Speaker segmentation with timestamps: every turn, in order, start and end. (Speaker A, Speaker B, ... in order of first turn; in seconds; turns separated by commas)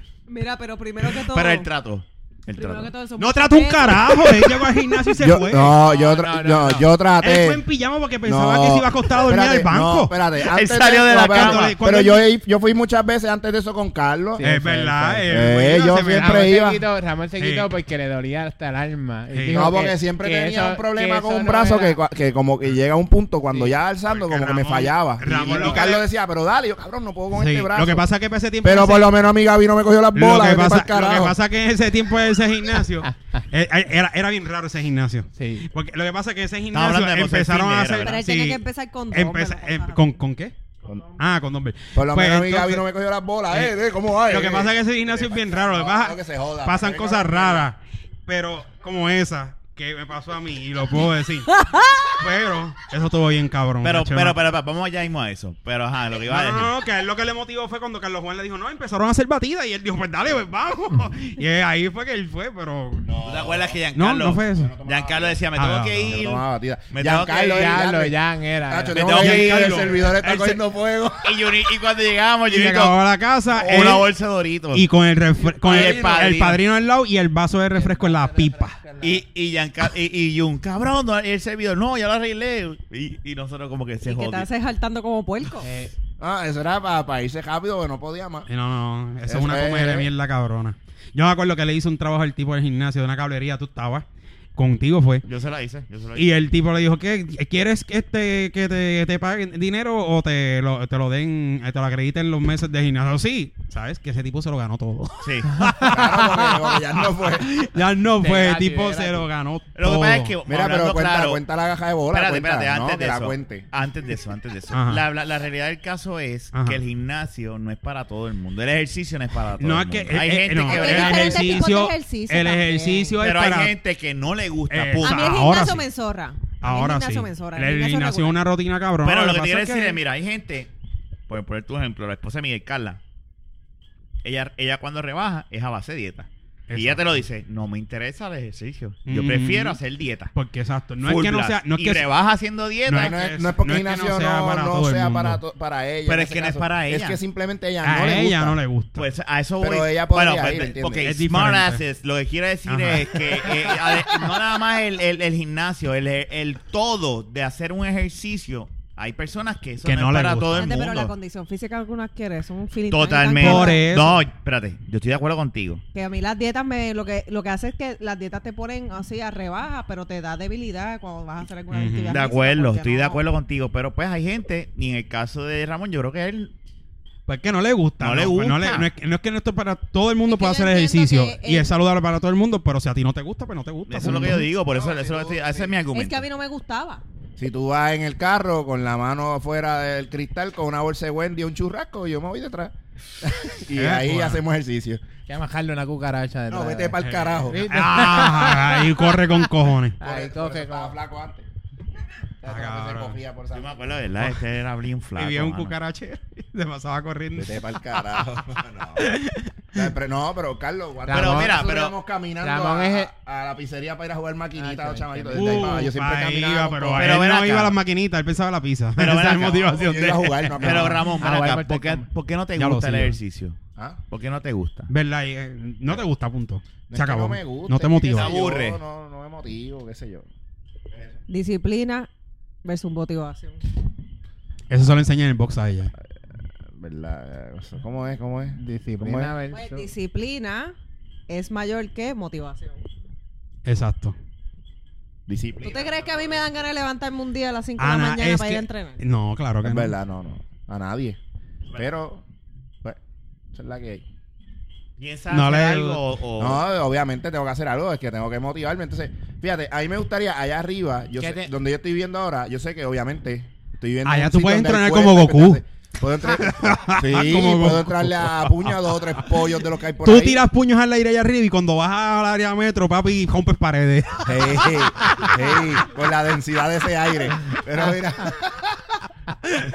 Speaker A: 0.3-1.7, Speaker B: 1.0-2.9, Speaker A: 2.6-4.5, Speaker C: 3.2-5.8, Speaker D: 5.2-7.6, Speaker E: 5.7-6.9, Speaker C: 7.2-10.2, Speaker D: 8.2-14.4, Speaker B: 10.4-11.8, Speaker C: 11.1-12.3, Speaker E: 14.4-15.3, Speaker C: 14.4-16.6, Speaker D: 15.3-16.8, Speaker E: 16.0-22.0, Speaker C: 17.4-17.7, Speaker C: 19.3-19.6, Speaker D: 19.5-28.1, Speaker C: 24.1-26.1, Speaker E: 25.3-25.8, Speaker C: 27.4-29.1, Speaker D: 28.6-31.4, Speaker C: 30.1-40.5, Speaker E: 35.4-35.7, Speaker B: 36.7-38.2, Speaker A: 38.0-40.1, Speaker D: 40.9-41.1, Speaker C: 41.2-42.8, Speaker D: 41.9-47.7, Speaker C: 44.3-54.4, Speaker B: 53.8-56.7, Speaker C: 56.3-63.2, Speaker D: 63.0-63.8, Speaker B: 63.2-67.8, Speaker C: 64.0-64.8, Speaker D: 64.5-65.5, Speaker C: 65.5-66.2, Speaker D: 66.1-71.5, Speaker E: 67.5-69.0, Speaker B: 68.9-70.0, Speaker C: 69.1-70.6, Speaker B: 71.2-73.0, Speaker C: 72.5-74.1, Speaker B: 73.5-74.9, Speaker C: 74.7-78.8, Speaker B: 75.6-76.6, Speaker E: 77.7-79.2, Speaker B: 79.0-84.5, Speaker A: 84.0-85.7, Speaker E: 85.6-85.9, Speaker D: 86.2-88.5, Speaker C: 88.5-95.2, Speaker D: 89.3-90.1, Speaker B: 95.2-96.3, Speaker C: 96.2-106.4, Speaker B: 105.2-105.8, Speaker D: 105.8-107.5, Speaker C: 107.3-110.4, Speaker E: 108.2-109.3, Speaker B: 109.8-111.4, Speaker D: 110.5-113.7, Speaker B: 112.1-121.7, Speaker C: 114.7-115.0, Speaker C: 116.5-116.8, Speaker C: 119.6-123.8, Speaker A: 120.6-123.2, Speaker B: 123.2-125.5, Speaker C: 124.7-125.9, Speaker A: 125.0-128.4, Speaker C: 126.6-130.0, Speaker B: 129.0-130.7, Speaker B: 131.3-133.0, Speaker B: 134.2-140.3, Speaker C: 136.7-137.0, Speaker C: 139.1-139.8, Speaker C: 140.3-142.1, Speaker B: 141.0-143.2, Speaker C: 142.9-145.4, Speaker D: 142.9-148.6, Speaker B: 146.1-147.2, Speaker C: 147.8-149.1, Speaker B: 149.0-161.1, Speaker D: 149.6-151.2, Speaker C: 151.0-151.8, Speaker C: 152.7-153.7, Speaker C: 159.8-160.7, Speaker A: 160.6-163.9, Speaker B: 162.9-165.8, Speaker C: 163.3-164.2, Speaker A: 165.9-173.2, Speaker C: 171.7-172.3, Speaker B: 172.1-176.5, Speaker C: 177.3-184.5, Speaker B: 178.0-178.9, Speaker A: 180.3-181.7, Speaker B: 183.9-186.2, Speaker D: 184.7-185.8, Speaker A: 185.9-187.0, Speaker D: 187.4-195.0, Speaker C: 193.8-194.4, Speaker E: 195.3-199.1, Speaker D: 196.5-197.7, Speaker C: 197.0-200.0, Speaker E: 200.0-200.9, Speaker D: 200.0-201.5, Speaker D: 202.4-203.9, Speaker C: 202.5-203.2, Speaker B: 203.5-205.8, Speaker C: 205.2-207.6, Speaker D: 207.3-209.2, Speaker C: 209.0-209.5, Speaker D: 209.7-217.2, Speaker E: 211.1-211.7, Speaker B: 211.1-211.9, Speaker E: 212.4-213.1, Speaker E: 214.6-215.9, Speaker C: 215.3-221.0, Speaker B: 217.0-217.8, Speaker B: 219.0-223.6, Speaker D: 219.7-221.0, Speaker E: 220.6-222.1, Speaker C: 222.6-223.2, Speaker B: 224.1-224.9, Speaker C: 224.9-228.4, Speaker D: 226.9-230.3, Speaker B: 228.1-228.8, Speaker D: 230.9-231.2, Speaker A: 231.3-232.1, Speaker A: 232.6-233.6, Speaker C: 234.7-235.9, Speaker D: 236.7-239.3, Speaker E: 238.6-239.9, Speaker A: 239.5-240.8, Speaker A: 241.3-242.8, Speaker C: 243.7-244.2, Speaker D: 245.3-246.4, Speaker A: 245.6-249.0, Speaker C: 247.8-249.9, Speaker D: 249.6-251.2, Speaker D: 251.7-252.2, Speaker D: 253.5-254.0, Speaker B: 255.0-256.6, Speaker C: 255.3-256.0, Speaker D: 256.4-270.4, Speaker E: 261.2-261.5, Speaker C: 264.1-265.6, Speaker C: 266.4-269.3, Speaker C: 270.0-275.2, Speaker D: 274.2-279.0